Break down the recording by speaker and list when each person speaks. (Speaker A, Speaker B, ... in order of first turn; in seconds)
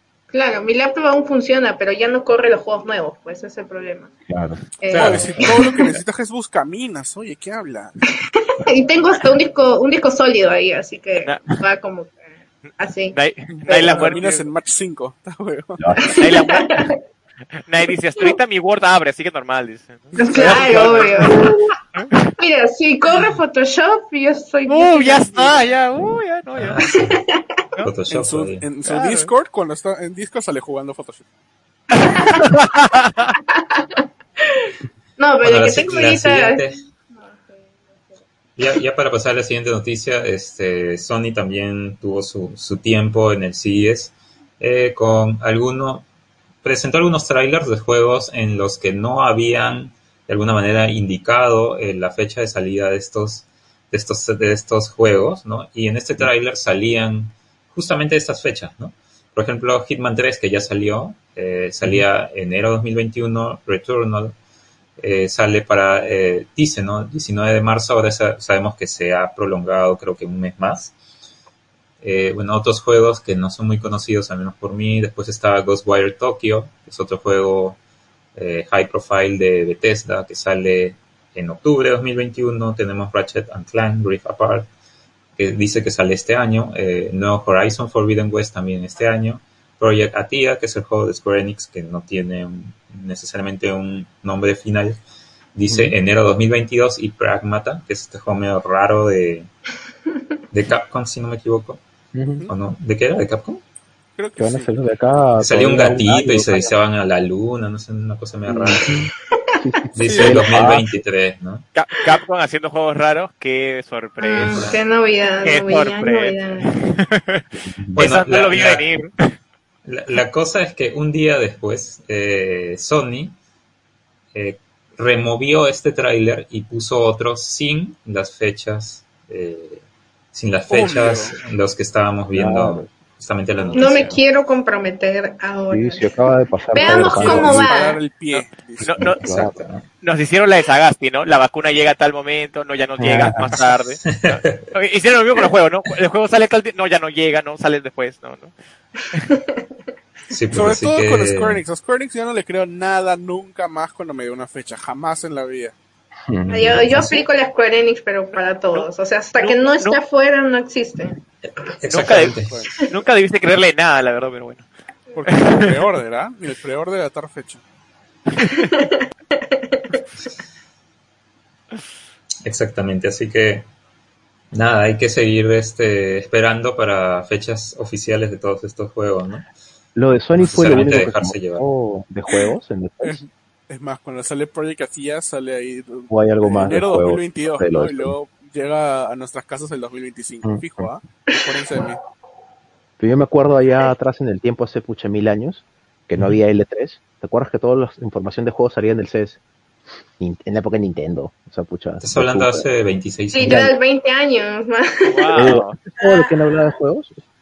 Speaker A: 0.3-4.1, 4.8-5.9, 8.1-12.2, 12.8-13.2, 13.7-14.3, 16.0-17.0, 20.2-21.8, 22.4-25.5, 26.8-27.6, 32.0-32.4, 33.5-38.2, 114.2-116.7, 133.7-136.2, 136.7-138.0, 149.3-149.7, 156.5-161.2, 168.7-170.0, 191.3-191.9, 203.3-206.3
Speaker B: 4.3-4.6, 15.8-16.1, 95.7-96.0, 102.1-102.5, 104.4-106.7, 108.5-110.9, 117.5-118.1, 132.3-132.9, 133.9-134.1, 135.7-137.7, 138.9-139.6, 143.0-143.6, 156.3-157.1, 179.9-183.2, 186.1-188.1, 190.4-190.9, 193.0-199.4, 200.2-202.7, 203.4-203.7, 205.4-207.2
Speaker C: 4.9-5.4, 26.5-27.2, 27.8-28.7, 35.4-36.8, 38.6-46.1, 46.6-64.4, 65.0-70.9, 72.0-77.8, 78.3-84.7, 85.4-95.0, 95.5-99.5, 100.5-101.8, 102.5-103.6, 105.4-109.0, 109.9-111.7, 114.4-114.8, 117.9-118.8, 119.8-123.4, 124.3-134.2, 137.2-137.5, 139.2-139.8, 144.1-144.7, 150.3-151.6, 161.7-162.6, 172.4-173.7, 174.5-179.5, 180.4-181.7, 202.0-203.6
Speaker D: 4.9-8.0, 13.5-15.9, 20.1-21.3, 28.1-31.2, 104.2-104.8, 130.7-131.4, 136.8-139.2, 150.5-155.8, 162.3-162.8, 165.2-167.6, 183.0-192.0
Speaker E: 11.2-11.6, 13.1-14.3, 16.2-16.8, 17.7-22.2, 24.7-26.8, 28.8-29.3, 31.9-33.4, 111.8-114.8, 115.4-119.2, 138.3-139.2, 140.0-148.5, 159.4-160.0, 161.9-164.7, 165.3-165.8, 168.3-168.7, 205.1-205.8